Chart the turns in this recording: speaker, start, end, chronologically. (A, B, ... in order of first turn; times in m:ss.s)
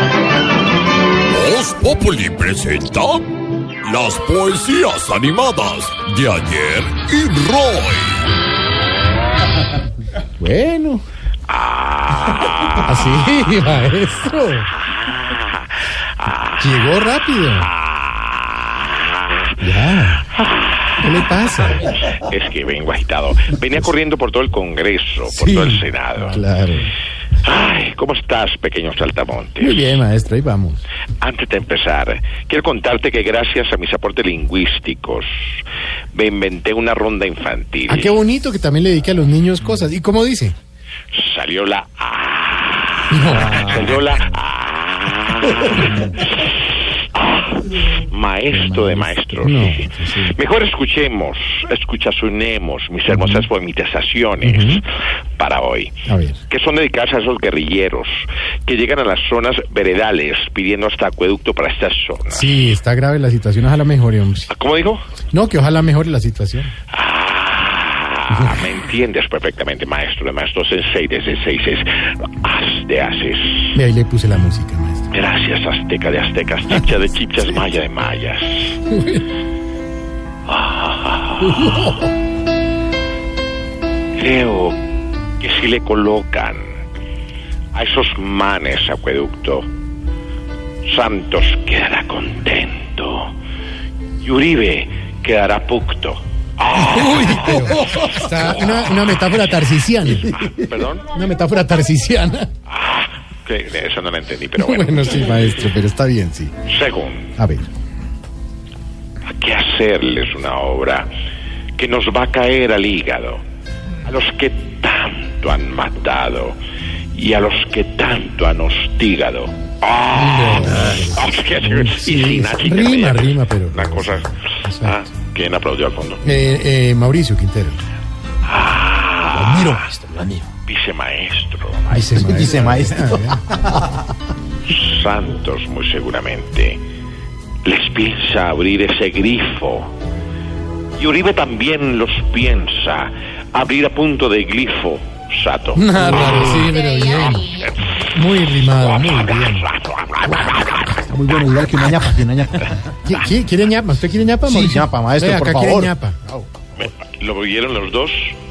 0:01.3-0:08.3 A
0:10.4-0:11.0 B
0:11.5-0:13.1 C
0:12.8-0:14.7 B
0:15.0-0:16.6 C
0:16.6-0:17.7 B
0:17.6-0:19.5 C
0:19.6-0:20.3 B
0:20.4-0:21.0 C
0:21.0-0:21.9 B
0:22.0-0:26.4 C
0:25.3-0:26.8 B
0:27.4-0:29.9 C
0:29.6-0:30.8 B
0:31.2-0:35.3 C
0:36.1-0:38.2 C
0:37.9-0:40.5 B
0:41.1-0:46.5 C
0:43.1-0:43.6 B
0:43.4-0:43.9 D
0:45.8-0:46.1 D
0:47.2-0:54.8 C
0:48.5-0:48.9 D
0:49.4-0:50.2 B
0:54.4-0:54.8 B
0:55.4-0:55.9 C
0:56.1-0:56.4 B
0:56.5-1:02.5 C
1:02.3-1:04.5 B
1:04.5-1:05.0 C
1:05.3-1:06.7 B
1:06.9-1:13.8 C
1:08.3-1:08.6 B
1:13.7-1:15.1 B
1:15.1-1:18.8 C
1:20.5-1:21.6 C
1:21.5-1:21.9 B
1:24.2-1:24.8 C
1:25.4-1:26.6 C
1:27.7-1:29.7 C
1:30.8-1:33.3 C
1:34.2-1:37.8 C
1:36.8-1:40.5 B
1:40.4-1:41.1 C
1:41.1-1:42.5 B
1:42.7-1:45.3 C
1:44.6-1:46.5 B
1:46.7-1:47.3 C
1:47.4-1:47.7 B
1:49.3-1:51.1 C
1:51.8-1:53.4 C
1:54.0-1:56.6 C
1:57.1-2:04.3 C
2:00.1-2:05.0 B
2:04.8-2:06.3 C
2:06.2-2:07.8 B
2:08.4-2:09.9 C
2:09.3-2:10.5 D
2:10.6-2:12.7 C
2:11.9-2:13.4 B
2:12.1-2:14.0 D
2:14.7-2:16.8 C
2:17.6-2:19.9 C
2:21.0-2:25.9 C
2:25.7-2:27.5 B
2:26.0-2:26.7 D
2:28.1-2:29.7 B
2:28.8-2:31.0 C
2:31.0-2:32.9 D
2:33.0-2:36.2 B
2:34.5-2:36.5 D
2:36.8-2:38.4 C